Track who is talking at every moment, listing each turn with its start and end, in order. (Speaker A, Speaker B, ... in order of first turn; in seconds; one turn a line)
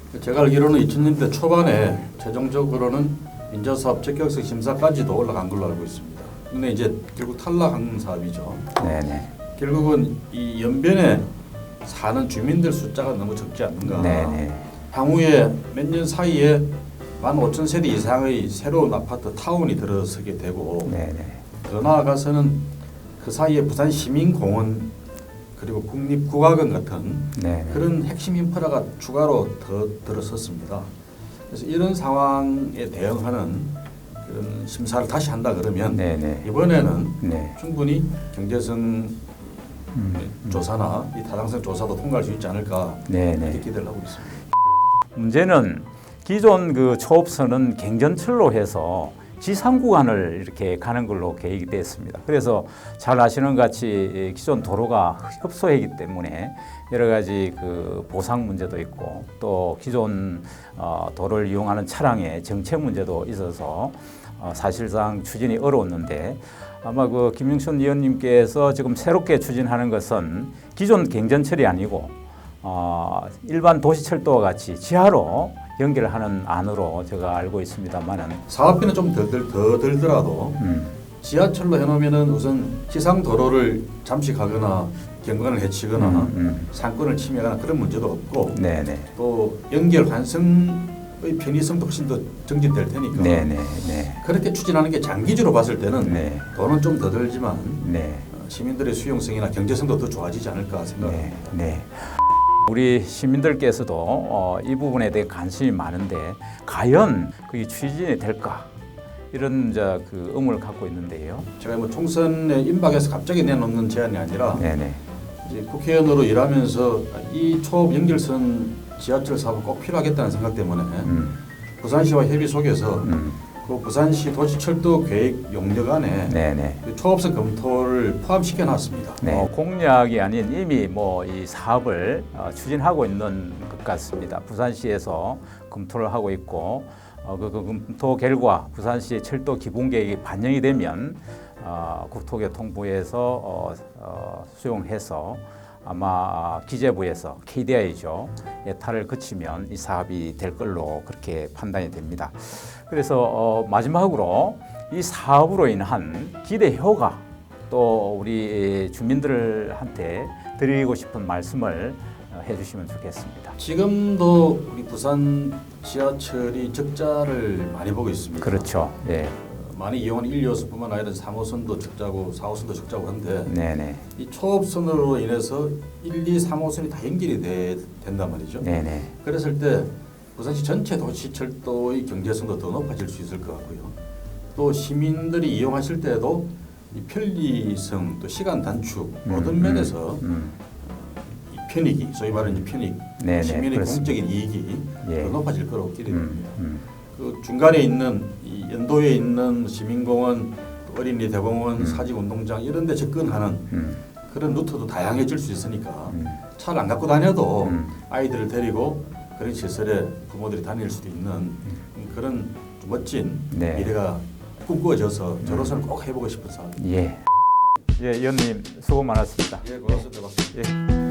Speaker A: 0.1-8.9
Speaker B: 8.8-9.3
Speaker A: 9.6-11.3
Speaker A: 11.8-16.7
Speaker B: 13.8-14.7
Speaker A: 17.2-21.0
Speaker B: 20.8-21.4
Speaker A: 21.6-22.6
Speaker A: 23.2-24.9
Speaker A: 25.6-30.9
Speaker B: 27.3-27.9
Speaker A: 31.5-39.4
Speaker B: 35.9-36.5
Speaker B: 37.2-37.6
Speaker B: 39.9-40.6
Speaker A: 40.0-44.4
Speaker B: 43.1-43.6
Speaker B: 45.1-78.4
Speaker A: 78.5-80.6
Speaker B: 80.6-80.9
Speaker A: 81.2-88.6
Speaker B: 86.0-86.7
Speaker B: 88.5-89.1
Speaker A: 89.1-93.5
Speaker B: 93.1-94.2
Speaker A: 94.2-101.5
Speaker B: 96.0-96.5
Speaker B: 97.8-98.3
Speaker B: 101.0-108.7
Speaker B: 109.3-111.5
Speaker A: 111.6-114.7
Speaker B: 114.5-115.0
Speaker A: 115.4-121.2
Speaker B: 121.0-121.4
Speaker A: 121.8-129.4
Speaker B: 123.0-123.4
Speaker B: 126.3-126.8
Speaker B: 129.2-163.6
Speaker A: 163.6-168.7
Speaker B: 168.4-169.4
Speaker A: 169.4-173.5
Speaker B: 173.5-174.0
Speaker A: 174.1-183.9
Speaker B: 178.6-179.1
Speaker A: 184.5-190.2
Speaker B: 189.2-190.6
Speaker A: 190.9-196.6
Speaker B: 193.2-194.1
Speaker B: 195.0-195.3
Speaker B: 196.1-196.8
Speaker A: 197.1-203.7
Speaker B: 201.8-202.0
Speaker B: 203.7-204.0
Speaker A: 204.3-216.8
Speaker B: 206.1-206.4
Speaker B: 207.6-207.9
Speaker B: 213.5-213.9
Speaker B: 215.4-215.8
Speaker B: 216.8-217.2
Speaker B: 217.9-220.7
Speaker A: 219.6-220.6